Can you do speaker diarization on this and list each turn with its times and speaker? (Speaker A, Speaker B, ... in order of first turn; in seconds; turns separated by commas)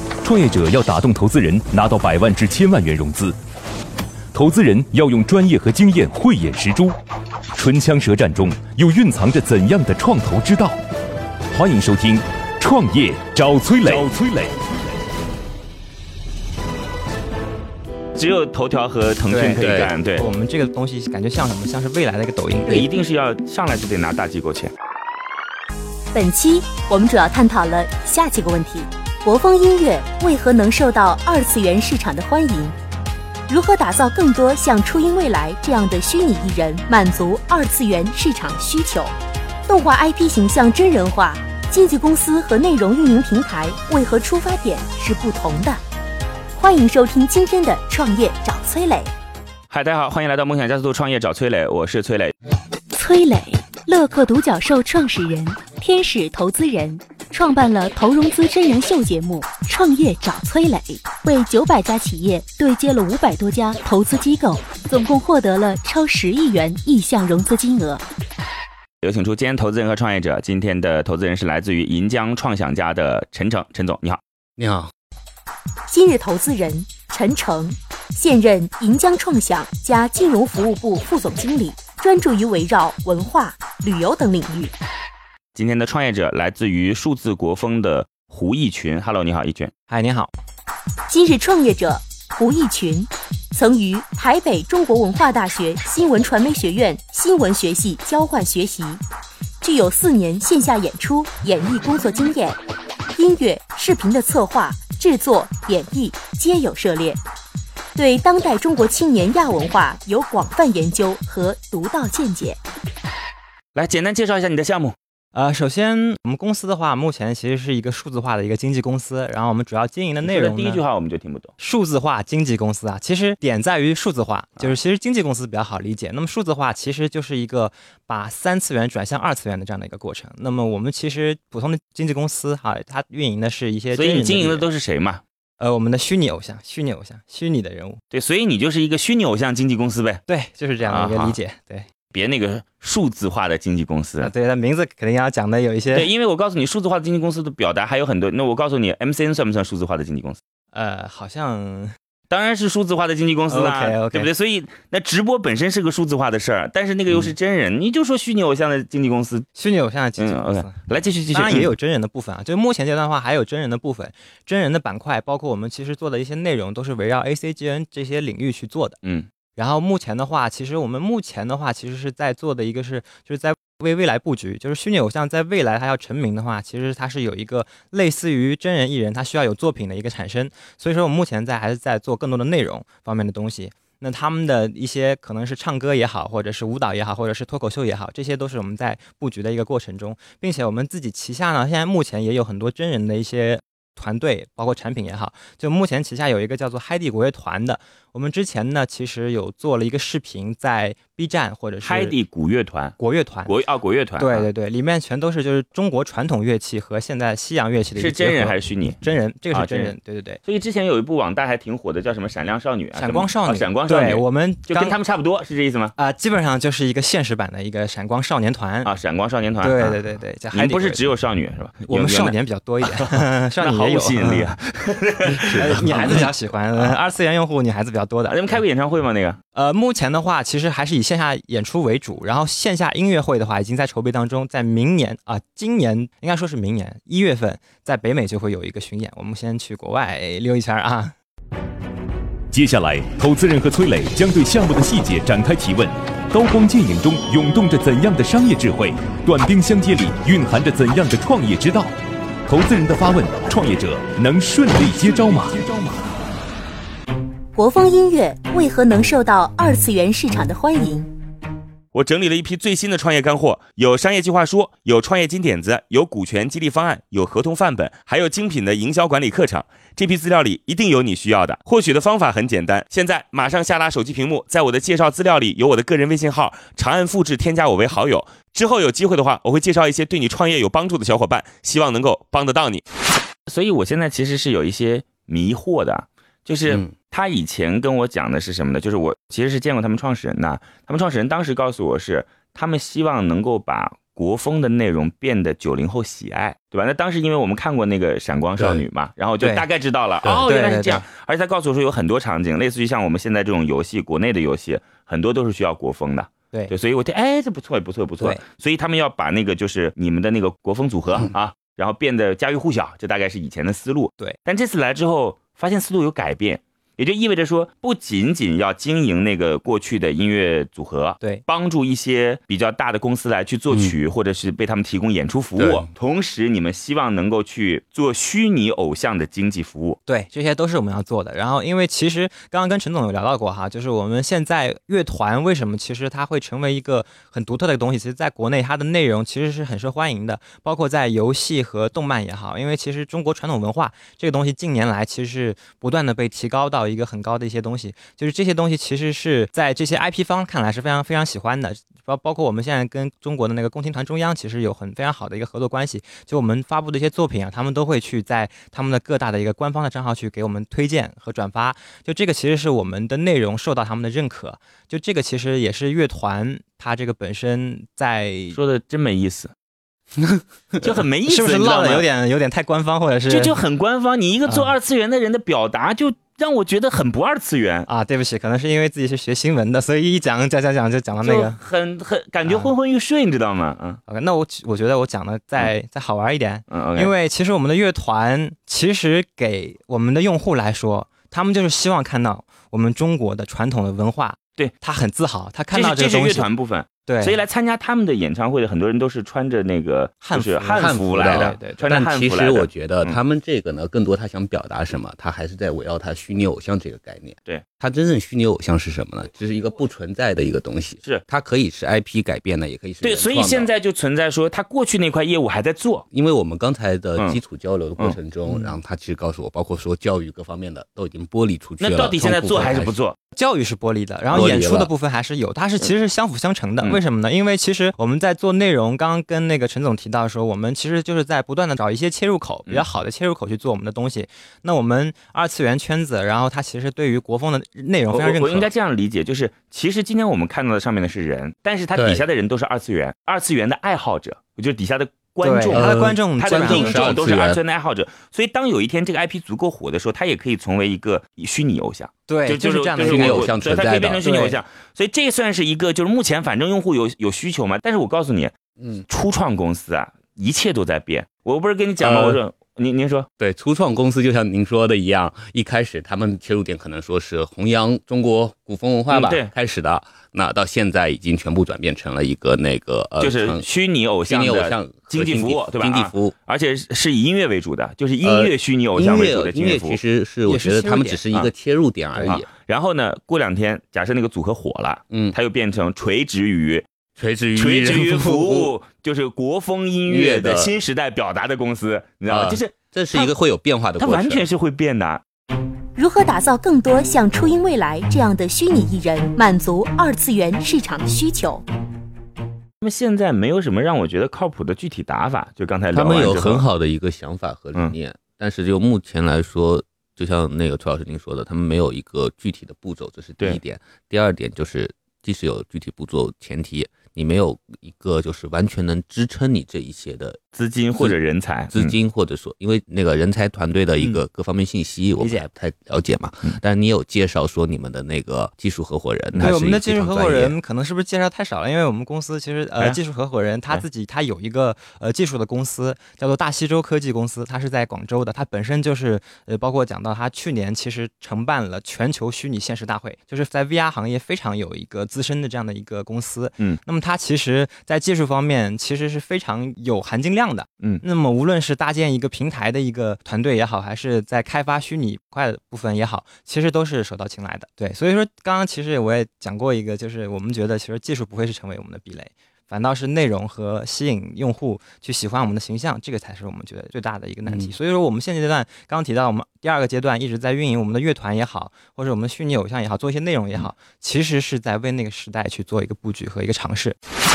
Speaker A: 0.2-3.4, Speaker A: 4.3-7.0, Speaker A: 7.5-10.8, Speaker A: 11.5-14.6, Speaker B: 18.1-20.3, Speaker C: 19.3-22.9, Speaker D: 19.6-19.9, Speaker B: 22.7-24.7, Speaker E: 26.1-32.8, Speaker E: 33.5-39.1, Speaker E: 39.7-45.8, Speaker E: 46.6-49.1, Speaker B: 49.7-52.3, Speaker E: 52.9-68.0, Speaker B: 69.0-74.2, Speaker D: 74.6-74.9, Speaker E: 75.9-84.7, Speaker B: 85.5-89.7, Speaker C: 89.9-90.3, Speaker E: 91.1-99.0, Speaker E: 99.6-102.6, Speaker E: 103.1-107.2, Speaker E: 108.0-112.6, Speaker B: 113.8-115.0, Speaker C: 115.3-120.8, Speaker B: 120.2-121.5, Speaker C: 121.6-134.7, Speaker B: 133.9-135.2, Speaker C: 135.6-138.0, Speaker B: 138.1-140.2, Speaker C: 140.3-141.9, Speaker B: 140.8-141.4, Speaker B: 142.1-144.3, Speaker C: 144.2-146.1, Speaker B: 145.9-150.4, Speaker C: 150.7-152.0, Speaker B: 152.3-159.5, Speaker C: 153.5-154.3, Speaker C: 159.6-160.8, Speaker B: 160.2-161.7, Speaker C: 161.3-169.0, Speaker B: 169.0-169.3, Speaker C: 169.6-202.2, Speaker B: 201.8-204.5, Speaker C: 203.0-203.6, Speaker C: 204.2-210.4, Speaker B: 208.0-209.0, Speaker B: 209.5-215.9, Speaker C: 212.9-215.0, Speaker C: 216.0-218.9, Speaker B: 218.8-227.0, Speaker C: 219.6-221.1, Speaker C: 221.9-224.5, Speaker C: 225.5-228.6, Speaker B: 228.3-229.4, Speaker C: 229.5-241.2, Speaker A: 242.5-251.9, Speaker A: 252.5-255.7, Speaker E: 257.6-261.1, Speaker B: 261.9-282.8, Speaker B: 283.5-330.0, Speaker D: 298.6-298.8, Speaker C: 299.4-299.7, Speaker C: 300.4-301.1, Speaker D: 325.6-325.9, Speaker C: 330.1-368.6, Speaker B: 368.5-369.5, Speaker C: 370.7-373.6, Speaker B: 370.8-372.1, Speaker B: 373.3-377.9, Speaker C: 374.5-374.7, Speaker C: 377.9-381.6, Speaker B: 381.2-384.0, Speaker C: 382.4-382.7, Speaker C: 384.1-396.5, Speaker B: 386.7-387.1, Speaker B: 395.7-403.2, Speaker C: 397.1-397.4, Speaker C: 400.2-401.9, Speaker D: 400.8-413.7, Speaker B: 413.0-416.1, Speaker D: 416.1-422.9, Speaker B: 418.0-418.8, Speaker B: 421.8-423.2, Speaker C: 423.3-438.7, Speaker D: 424.3-424.9, Speaker B: 438.1-458.5, Speaker D: 441.9-442.2, Speaker C: 445.4-447.2, Speaker D: 445.7-447.6, Speaker C: 452.3-453.5, Speaker D: 453.0-454.2, Speaker C: 454.2-454.6, Speaker D: 458.8-459.1, Speaker B: 459.1-463.3, Speaker D: 462.0-462.4, Speaker D: 463.4-473.7, Speaker B: 469.1-469.5, Speaker B: 473.2-480.0, Speaker D: 474.2-476.4, Speaker D: 478.2-482.5, Speaker C: 480.4-481.2, Speaker B: 482.2-486.9, Speaker D: 485.1-485.4, Speaker D: 487.2-488.8, Speaker B: 487.6-493.3, Speaker D: 490.1-490.8, Speaker D: 492.3-494.5, Speaker B: 494.0-495.2, Speaker E: 496.0-501.6, Speaker B: 502.8-506.7, Speaker D: 505.9-520.4, Speaker B: 520.5-522.0, Speaker D: 521.7-530.6, Speaker C: 525.2-525.5, Speaker C: 529.4-577.0, Speaker D: 567.5-567.7